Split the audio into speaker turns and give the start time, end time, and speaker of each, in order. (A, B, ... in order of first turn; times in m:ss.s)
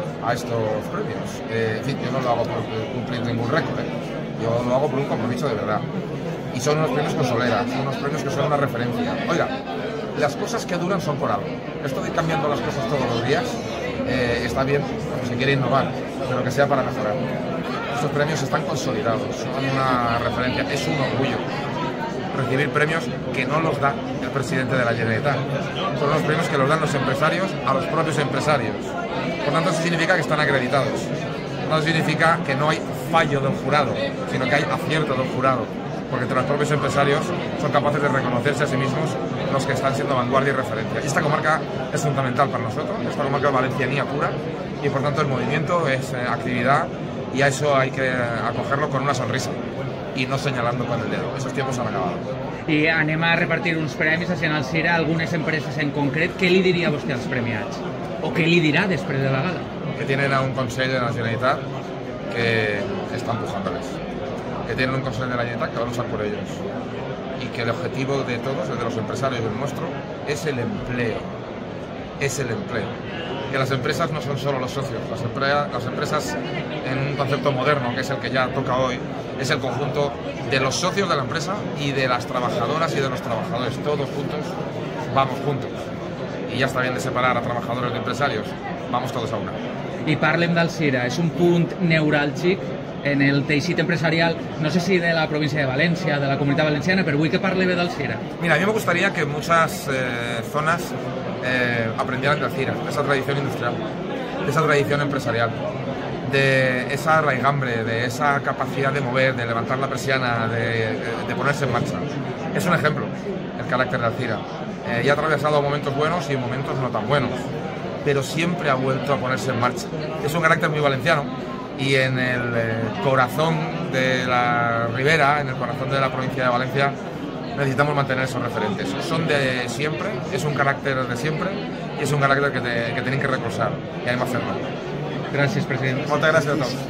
0:00.2-0:05.8 A
0:06.5-0:09.5 A
0:10.1-0:17.2 A
0:17.9-0:21.4 A
0:22.3-0:25.4 A
0:26.0-0:31.1 A
0:31.6-0:49.6 A
0:50.1-0:52.2 A
0:52.7-0:59.7 B
1:00.0-1:01.6 A
1:02.3-1:04.0 A
1:04.6-1:06.6 A
1:07.4-1:11.3 A
1:12.2-1:13.0 A
1:13.5-1:24.5 A
1:25.1-1:25.8 A
1:26.5-1:29.6 A
1:30.0-1:38.2 B
1:38.4-1:43.8 A
1:44.4-1:45.6 A
1:46.2-1:57.4 A
1:58.0-2:07.0 A
2:07.5-2:14.6 A
2:15.3-2:16.2 B
2:16.0-2:16.8 A